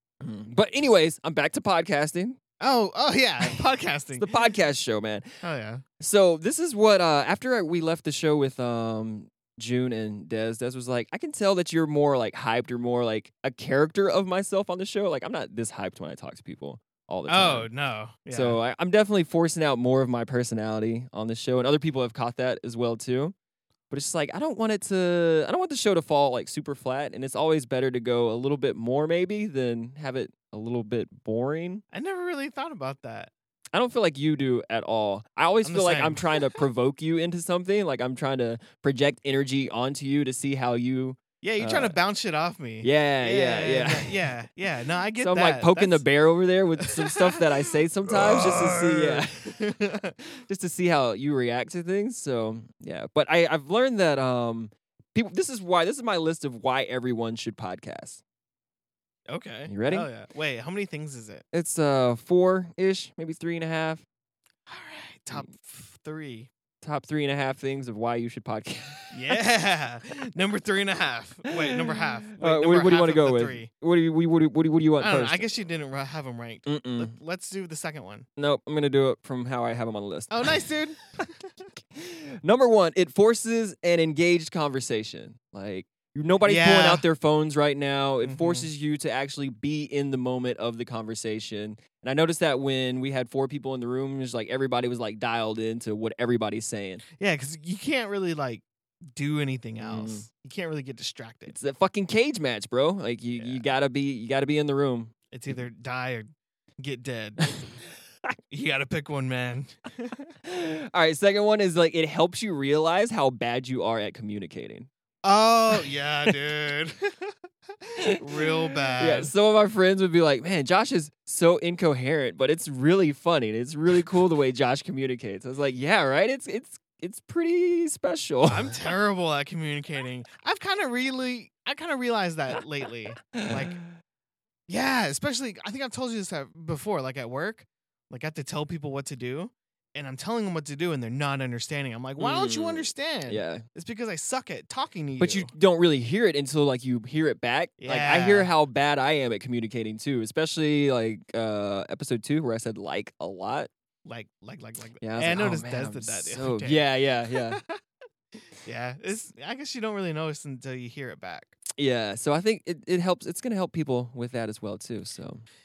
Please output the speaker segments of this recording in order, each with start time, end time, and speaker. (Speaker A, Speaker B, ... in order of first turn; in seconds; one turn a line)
Speaker A: 0.2-2.4
Speaker B: 2.6-4.3
Speaker A: 4.2-5.3
Speaker B: 5.4-5.8
Speaker A: 6.0-17.7
Speaker B: 17.3-18.6
Speaker A: 18.3-23.3
Speaker A: 23.9-31.8
Speaker B: 31.9-33.3
Speaker A: 33.7-42.0
Speaker B: 35.6-36.6
Speaker B: 41.4-46.0
Speaker A: 42.8-44.2
Speaker A: 45.2-49.6
Speaker B: 46.8-47.5
Speaker B: 48.0-50.2
Speaker A: 50.5-58.2
Speaker B: 59.3-61.4
Speaker A: 59.7-60.1
Speaker A: 61.5-64.0
Speaker B: 64.7-66.5
Speaker A: 66.8-69.3
Speaker B: 69.1-73.7
Speaker A: 71.5-75.5
Speaker B: 75.0-78.2
Speaker A: 76.7-77.1
Speaker A: 78.4-80.6
Speaker B: 80.3-81.3
Speaker A: 81.9-97.0
Speaker B: 86.4-87.0
Speaker B: 88.2-88.7
Speaker B: 97.2-101.5
Speaker A: 99.8-100.3
Speaker A: 101.5-105.5
Speaker B: 103.4-103.6
Speaker B: 105.3-107.6
Speaker B: 108.5-110.3
Speaker A: 110.4-114.9
Speaker B: 115.2-117.3
Speaker B: 117.8-119.3
Speaker A: 118.0-128.7
Speaker B: 128.4-133.8
Speaker A: 133.3-133.8
Speaker B: 134.7-145.5
Speaker A: 142.2-143.6
Speaker A: 145.2-153.7
Speaker B: 147.8-148.5
Speaker B: 154.0-157.8
Speaker A: 155.0-157.6
Speaker B: 158.6-161.5
Speaker A: 161.8-165.4